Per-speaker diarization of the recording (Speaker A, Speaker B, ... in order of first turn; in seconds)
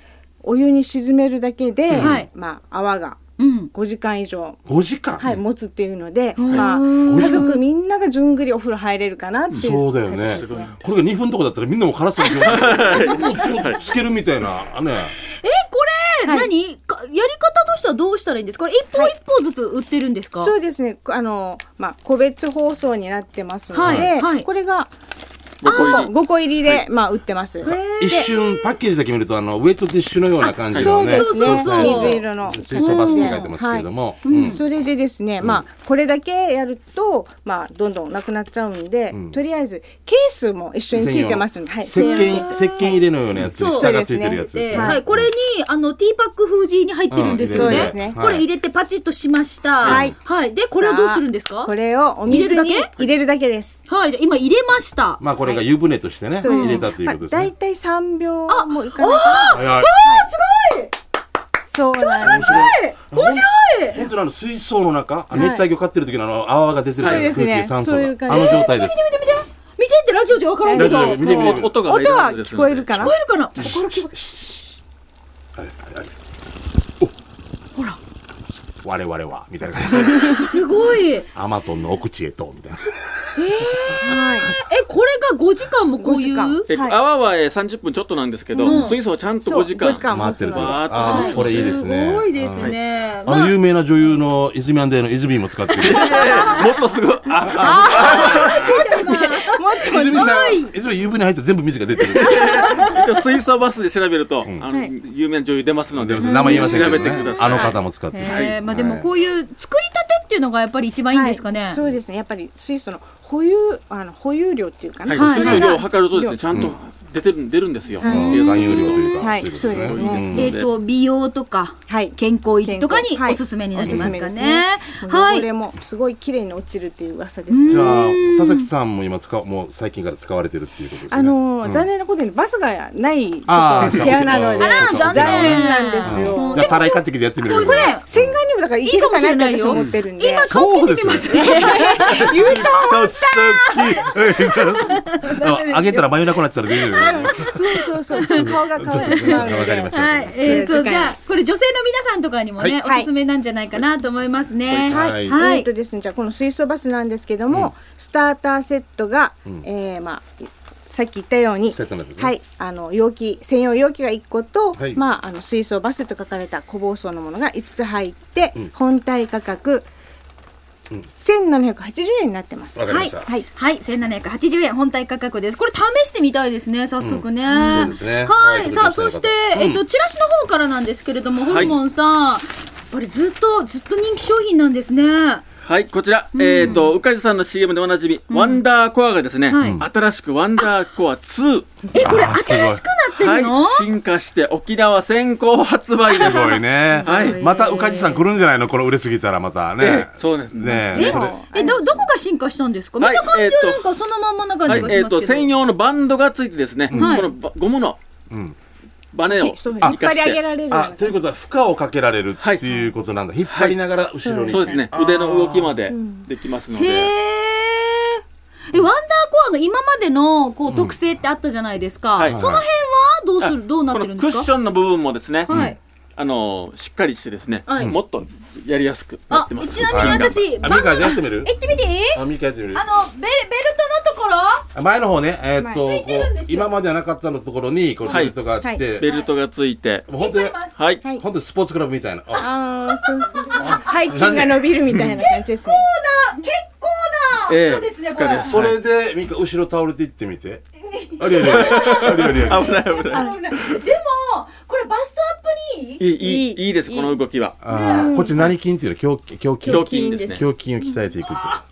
Speaker A: 0.4-3.2, 3.7-4.6, 5.2-10.8, 16.2-16.5, 20.4-24.9, 25.6-28.3, 30.5-45.0, 47.3-48.4, 49.8-50.2, 50.7-53.8, 56.3-60.3, 61.7-62.7, 65.3-65.7, 67.0-68.7, 70.6-73.2, 84.0-84.5, 86.0-87.0, 88.5-88.9, 89.5-91.3, 97.4-100.4, 102.3-102.9, 111.1-116.4, 118.0-120.3, 121.9-128.1, 131.1-137.0, 137.7-144.6, 147.0-151.2, 152.8-153.1, 154.9-169.9, 171.2-173.5, 177.5-177.9, 200.7-202.1, 206.9-207.2, 209.3-211.2, 214.2-214.9, 215.9-216.3, 238.1-238.8, 242.4-245.9, 256.2-257.2, 257.9-258.5, 259.6-260.4
Speaker B: 2.0-2.3, 3.4-3.7, 6.4-7.6, 13.1-13.6, 15.3-20.5, 23.7-24.5, 25.6-26.1, 27.6-28.7, 31.0-32.2, 32.8-33.5, 34.2-34.6, 41.9-42.9, 43.5-51.7, 52.3-52.9, 53.9-55.2, 56.5-56.9, 58.5-60.9, 62.0-64.0, 68.3-71.2, 73.0-74.2, 80.2-81.3, 83.4-86.7, 88.6-89.0, 91.0-93.6, 95.8-96.8, 97.5-100.7, 102.3-103.0, 106.2-111.8, 115.2-115.9, 118.0-119.2, 120.3-125.5, 127.5-128.7, 134.6-138.1, 138.8-142.7, 144.6-146.0, 146.8-155.7, 172.9-185.4, 186.3-186.9, 188.3-188.6, 189.5-189.8, 191.9-193.9, 196.1-198.2, 200.9-205.5, 206.9-207.3, 216.7-224.5, 225.5-225.8, 227.7-228.0, 229.3-232.2, 232.7-234.7, 235.8-236.7, 239.0-239.3, 240.2-240.8, 242.3-244.0, 245.2-248.5, 250.9-256.0, 257.7-258.4
Speaker C: 4.7-5.4, 7.0-7.5, 9.6-15.2, 28.0-34.6, 39.1-39.4, 40.9-45.3, 47.1-48.4, 49.9-50.1, 55.2-57.5, 59.5-60.0, 62.2-69.0, 70.7-71.8, 73.6-74.6, 75.6-76.1, 78.6-80.5, 81.3-84.0, 90.0-96.4, 97.3-98.7, 99.8-102.8, 105.9-109.1, 116.5-116.8, 118.0-120.5, 123.8-124.1, 127.7-131.9, 133.5-138.4, 140.4-150.8, 154.9-155.4, 161.7-162.3, 172.8-173.3, 177.0-179.8, 189.6-189.9, 192.0-192.9, 196.1-201.4, 208.3-208.6, 210.7-215.8, 220.7-221.0, 222.3-222.7, 225.5-225.8, 229.9-231.5, 232.1-232.8, 234.7-239.1, 240.1-242.5, 243.6-244.8, 248.4-250.6, 251.2-252.9, 257.6-261.6
Speaker D: 10.3-10.8, 12.3-13.9, 23.8-24.1, 25.6-26.1, 30.7-31.0, 67.0-67.5, 71.2-73.1, 86.7-91.8, 95.8-98.6, 102.2-108.6, 115.1-120.7, 139.7-140.0, 181.4-181.8, 185.6-191.9, 193.2-197.4, 199.8-200.9, 203.0-203.8, 204.7-208.0, 209.1-210.4, 212.4-212.7, 213.5-213.8, 214.5-217.1, 223.4-225.5, 226.2-230.4, 238.1-238.3, 238.9-240.1, 240.8-241.0, 247.5-248.8, 251.5-253.8, 256.0-257.6, 259.7-260.4